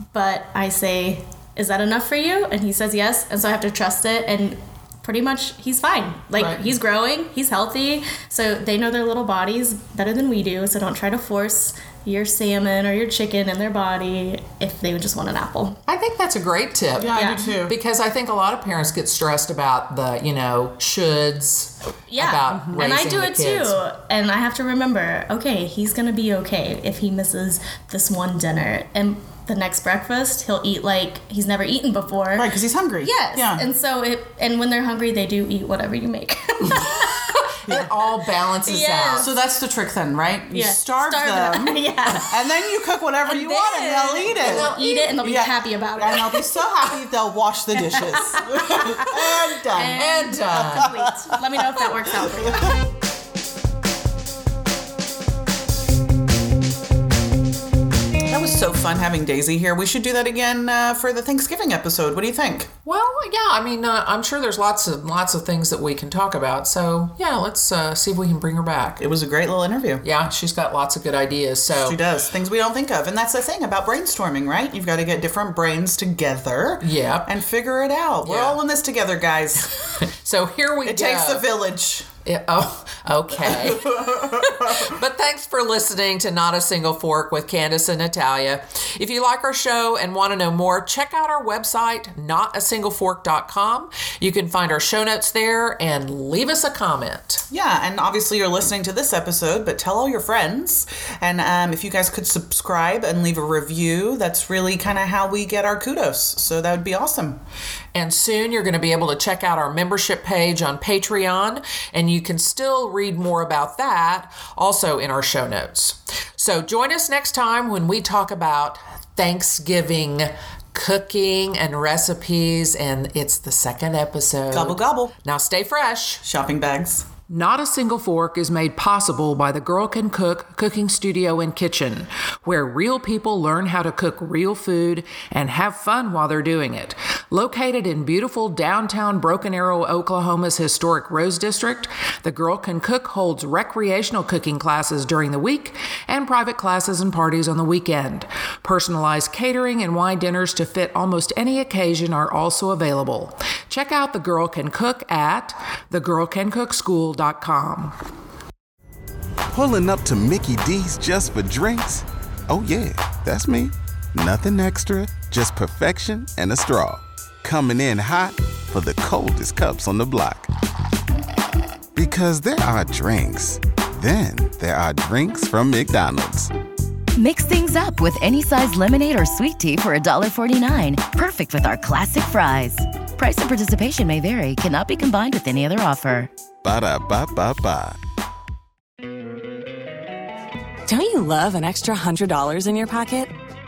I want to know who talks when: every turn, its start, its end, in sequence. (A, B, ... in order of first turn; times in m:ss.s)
0:00.1-0:15.8 A
0:06.4-0:06.7 B
0:15.9-0:23.8 C
0:17.0-0:17.7 B
0:17.1-0:17.5 A
0:22.1-0:32.5 A
0:22.5-0:22.8 B
0:32.4-0:33.7 B
0:33.0-0:37.3 A
0:36.7-0:39.3 C
0:38.6-0:39.3 A
0:39.1-0:52.7 B
0:40.5-0:42.4 A
0:43.2-0:46.7 A
0:44.3-0:45.1 C
0:47.8-0:52.7 A
0:49.9-0:50.9 C
0:58.3-1:02.7 B
1:02.8-1:09.0 C
1:09.0-1:10.0 B
1:10.0-1:12.0 C
1:11.7-1:19.7 B
1:16.8-1:17.3 C
1:18.2-1:18.6 C
1:19.9-1:21.4 C
1:20.8-1:22.1 B
1:22.2-1:37.4 C
1:23.3-1:25.0 B
1:37.5-1:47.4 B
1:47.9-2:06.2 C
2:04.5-2:05.1 B
2:06.2-2:07.1 B
2:07.3-2:38.0 C
2:39.5-2:50.5 D
2:52.0-2:56.5 D
2:57.2-3:06.3 E
3:06.6-3:08.0 D
3:10.9-3:13.3 F